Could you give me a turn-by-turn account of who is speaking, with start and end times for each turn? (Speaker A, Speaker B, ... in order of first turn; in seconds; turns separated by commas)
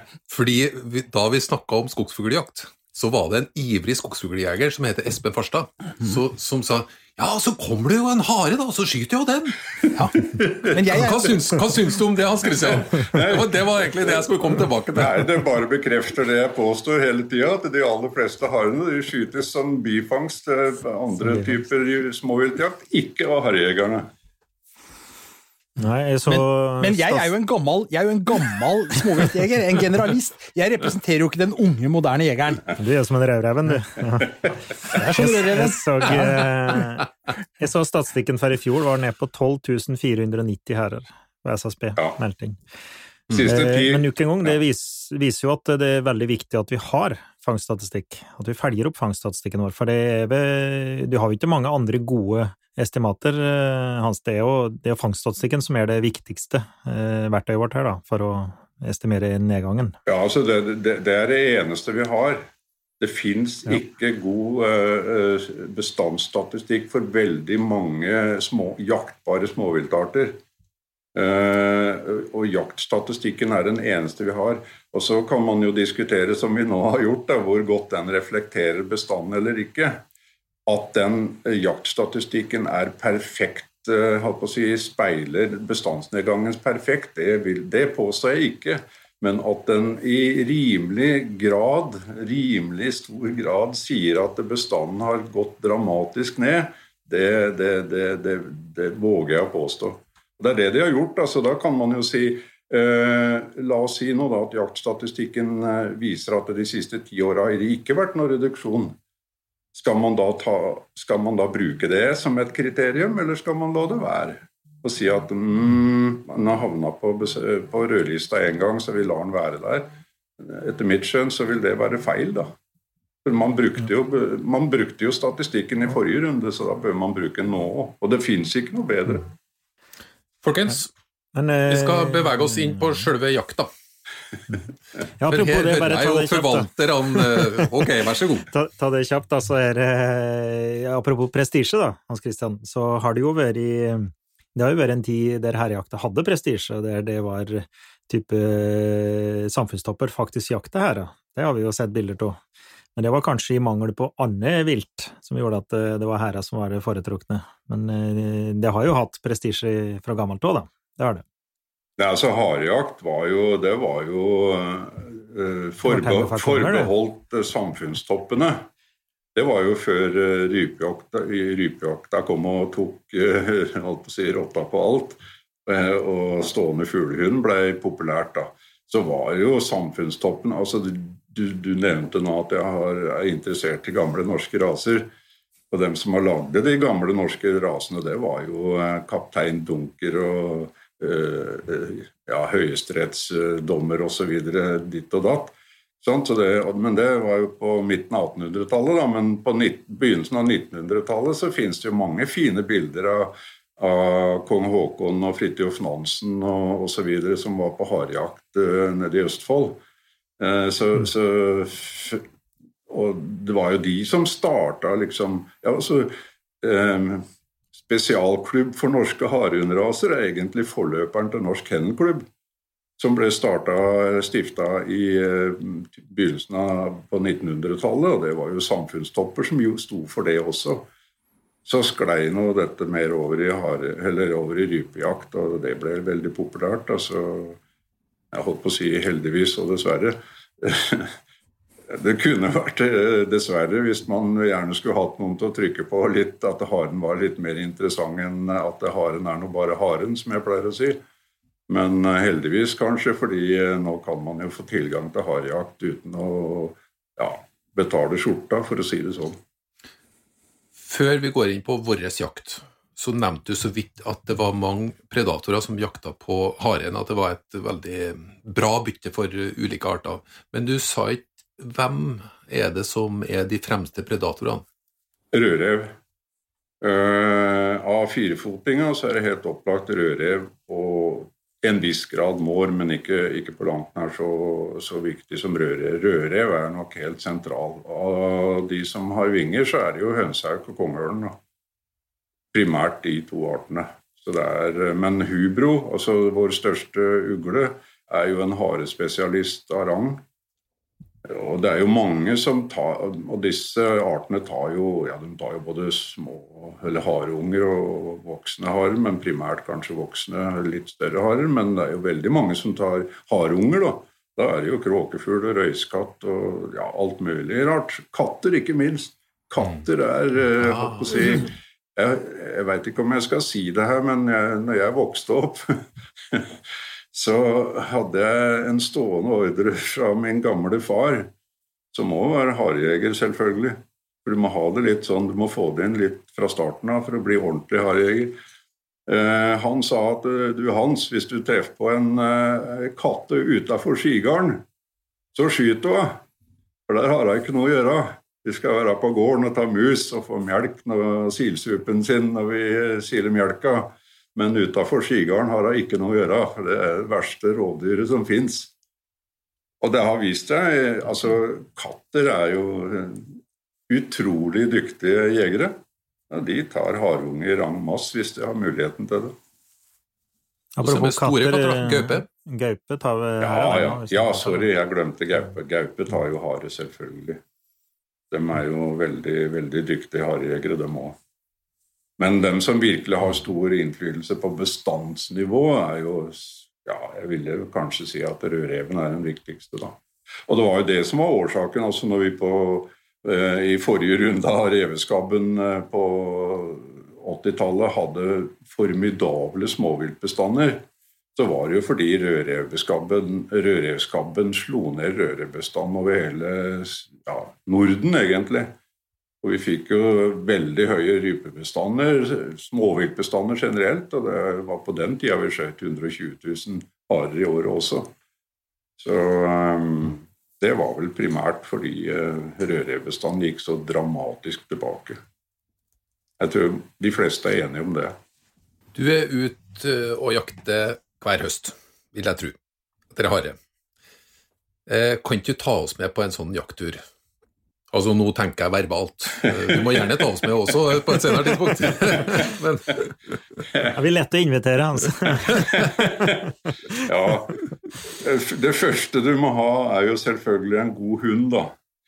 Speaker A: 0.3-9.6, Speaker B: 9.9-11.3, Speaker C: 10.4-10.6, Speaker A: 10.7-15.4, Speaker C: 13.0-14.1, Speaker C: 14.9-24.1, Speaker D: 25.8-27.3, Speaker B: 26.3-32.7, Speaker D: 32.8-42.6, Speaker B: 34.9-36.4, Speaker C: 43.3-44.5, Speaker D: 43.3-60.0, Speaker C: 60.1-62.5, Speaker C: 63.0-70.4, Speaker C: 71.2-80.0, Speaker C: 80.7-109.0, Speaker C: 109.7-122.5, Speaker C: 123.2-129.3, Speaker A: 130.4-130.9, Speaker D: 131.3-132.8, Speaker A: 131.7-133.7, Speaker D: 135.2-137.7, Speaker A: 135.3-138.5, Speaker D: 138.5-152.4, Speaker D: 153.0-161.2, Speaker C: 162.0-168.7, Speaker D: 165.9-166.9, Speaker C: 169.3-185.1, Speaker C: 185.7-209.8, Speaker C: 210.4-212.2, Speaker C: 212.9-217.3, Speaker C: 217.8-222.2, Speaker C: 223.0-230.9, Speaker C: 231.7-237.6, Speaker C: 238.3-241.1, Speaker C: 241.9-251.0, Speaker C: 251.7-259.4, Speaker A: 260.8-274.6, Speaker C: 275.3-275.9, Speaker C: 276.8-291.4, Speaker C: 292.5-300.2, Speaker C: 301.2-326.6, Speaker A: 320.6-321.4, Speaker C: 327.1-331.3, Speaker C: 331.9-338.4, Speaker C: 339.1-344.6, Speaker C: 345.3-346.2, Speaker C: 346.9-358.7, Speaker C: 359.8-363.4, Speaker C: 363.9-365.8, Speaker C: 366.3-369.4, Speaker D: 370.8-374.6, Speaker A: 370.8-372.2, Speaker C: 373.4-377.4, Speaker C: 378.3-381.2, Speaker C: 382.2-400.9, Speaker C: 401.4-408.7, Speaker C: 409.4-418.1, Speaker C: 419.0-425.2, Speaker C: 426.4-428.2, Speaker A: 428.9-432.6, Speaker A: 433.1-433.6, Speaker A: 434.9-437.0, Speaker A: 437.9-443.4, Speaker D: 443.9-446.1, Speaker C: 445.6-446.4, Speaker C: 447.0-451.7